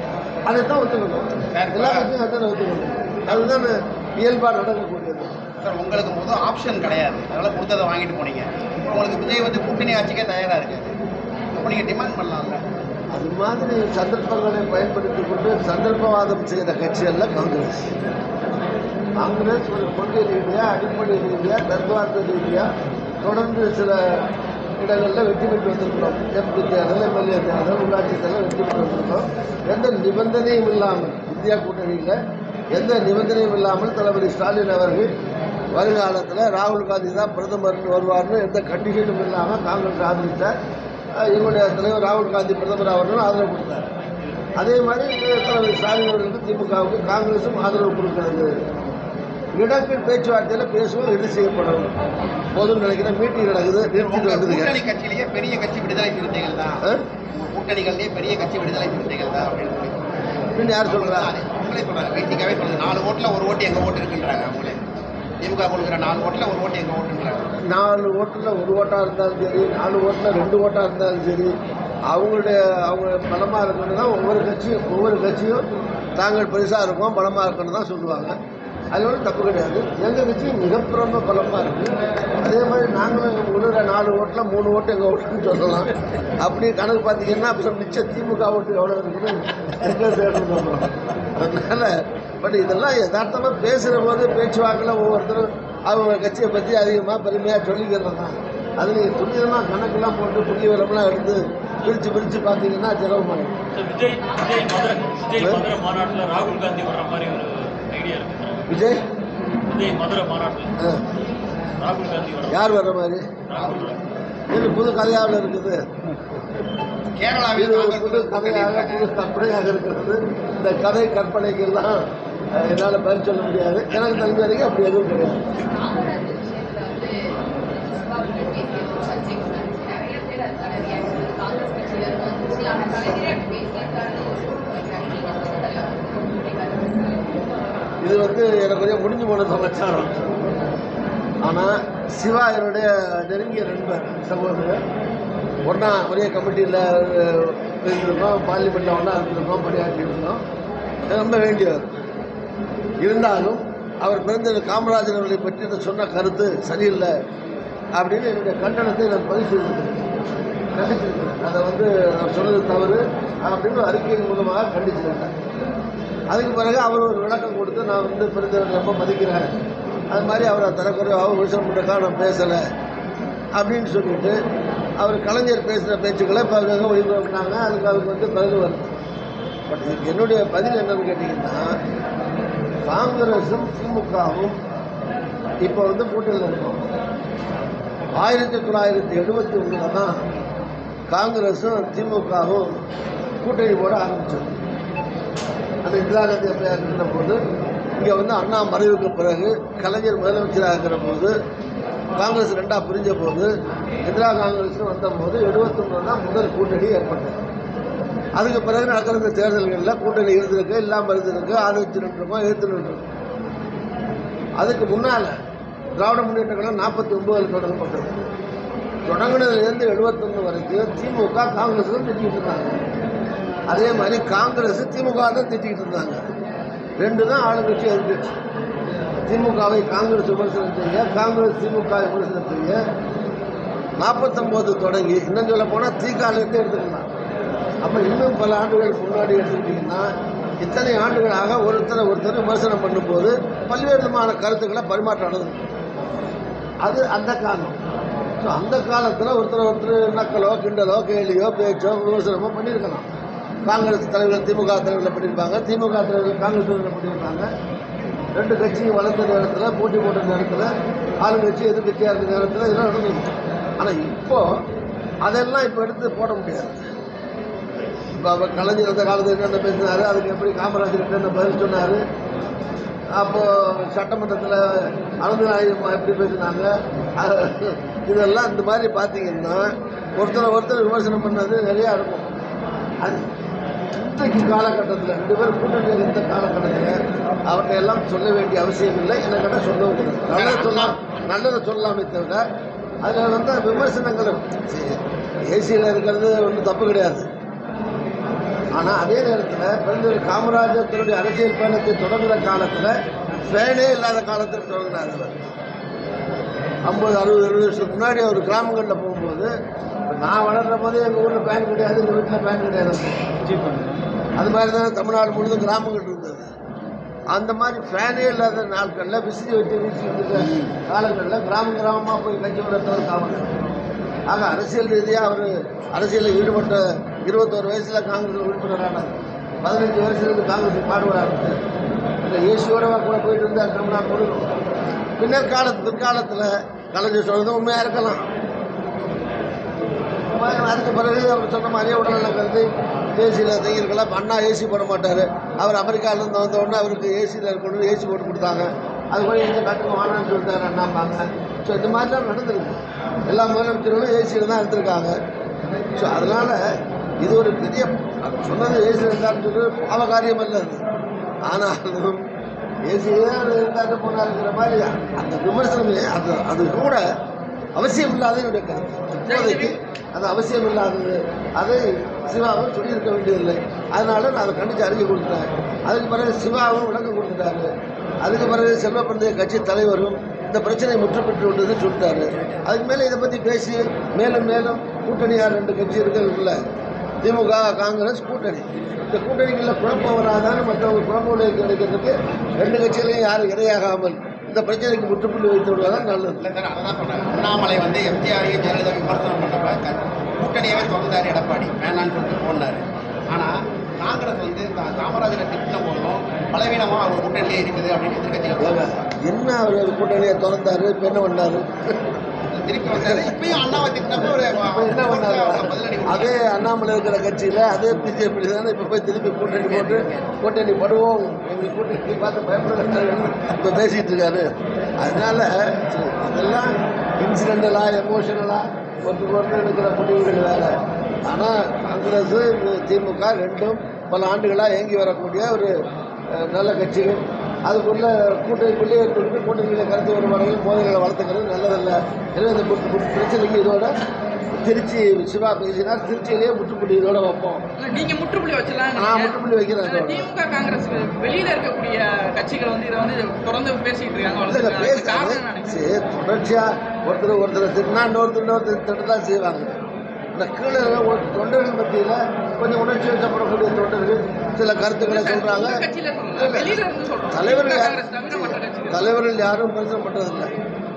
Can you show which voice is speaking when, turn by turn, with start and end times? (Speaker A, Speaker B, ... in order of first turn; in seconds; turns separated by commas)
Speaker A: 0.5-5.3, Speaker B: 1.5-2.1, Speaker B: 5.6-10.9, Speaker B: 11.5-12.6, Speaker A: 13.1-17.9, Speaker A: 19.2-22.7, Speaker A: 23.2-24.3, Speaker A: 24.8-32.2, Speaker A: 32.7-35.1, Speaker A: 35.7-40.5, Speaker A: 41.1-43.9, Speaker A: 44.6-48.5, Speaker A: 49.5-51.9, Speaker A: 52.5-54.8, Speaker B: 54.0-60.1, Speaker A: 60.5-61.3, Speaker B: 60.7-64.8, Speaker B: 65.4-67.6, Speaker A: 67.6-71.5, Speaker A: 72.1-78.4, Speaker A: 78.9-103.5, Speaker C: 103.7-108.6, Speaker A: 105.4-105.7, Speaker A: 108.7-109.0, Speaker C: 109.7-110.8, Speaker A: 110.8-111.0, Speaker C: 111.8-112.7, Speaker A: 112.5-113.2, Speaker C: 113.5-114.0, Speaker A: 114.5-115.8, Speaker B: 117.2-119.5, Speaker A: 117.5-125.4, Speaker B: 123.9-124.3, Speaker C: 125.5-137.3, Speaker A: 138.0-140.2, Speaker A: 141.4-144.8, Speaker A: 145.7-150.4, Speaker A: 151.1-151.9, Speaker A: 153.0-157.2, Speaker A: 157.9-160.0, Speaker A: 160.7-165.3, Speaker A: 166.3-169.5, Speaker A: 170.1-172.6, Speaker A: 173.5-174.4, Speaker A: 175.0-178.9, Speaker A: 179.7-181.8, Speaker A: 182.8-184.6, Speaker A: 185.6-186.8, Speaker A: 188.2-190.2, Speaker A: 191.1-192.8, Speaker A: 193.4-194.6, Speaker A: 195.8-197.4, Speaker A: 198.0-201.3, Speaker A: 202.2-203.5, Speaker A: 204.1-207.4, Speaker A: 208.4-213.0, Speaker A: 214.6-215.3, Speaker A: 216.0-218.2, Speaker A: 219.1-222.8, Speaker A: 223.7-226.2, Speaker A: 227.0-228.4, Speaker A: 229.2-232.8, Speaker A: 234.0-237.1, Speaker A: 237.8-245.6, Speaker A: 246.8-247.8, Speaker A: 248.4-253.1, Speaker A: 253.7-257.5, Speaker A: 258.4-264.6, Speaker A: 265.2-266.9, Speaker A: 268.2-272.0, Speaker A: 273.1-282.3, Speaker A: 283.9-292.4, Speaker B: 290.3-291.0, Speaker A: 293.0-297.3, Speaker A: 298.7-302.9, Speaker A: 303.4-305.4, Speaker A: 306.9-309.5, Speaker A: 310.1-313.3, Speaker D: 313.5-313.9, Speaker A: 314.4-316.5, Speaker A: 317.3-323.5, Speaker A: 324.3-331.6, Speaker A: 332.2-334.5, Speaker A: 335.2-338.3, Speaker A: 340.3-355.2, Speaker A: 356.0-356.6, Speaker A: 357.2-360.9, Speaker A: 361.4-362.3, Speaker A: 362.9-367.0, Speaker A: 367.8-377.7, Speaker D: 369.2-369.7, Speaker A: 378.2-386.6, Speaker A: 387.2-396.5, Speaker B: 395.8-408.9, Speaker A: 408.6-412.0, Speaker B: 412.5-416.4, Speaker A: 412.9-435.7, Speaker A: 436.3-443.9, Speaker A: 444.5-447.6, Speaker D: 447.8-455.8, Speaker A: 449.0-450.3, Speaker A: 454.5-459.8, Speaker A: 460.4-465.8, Speaker D: 465.0-469.1, Speaker A: 466.4-470.5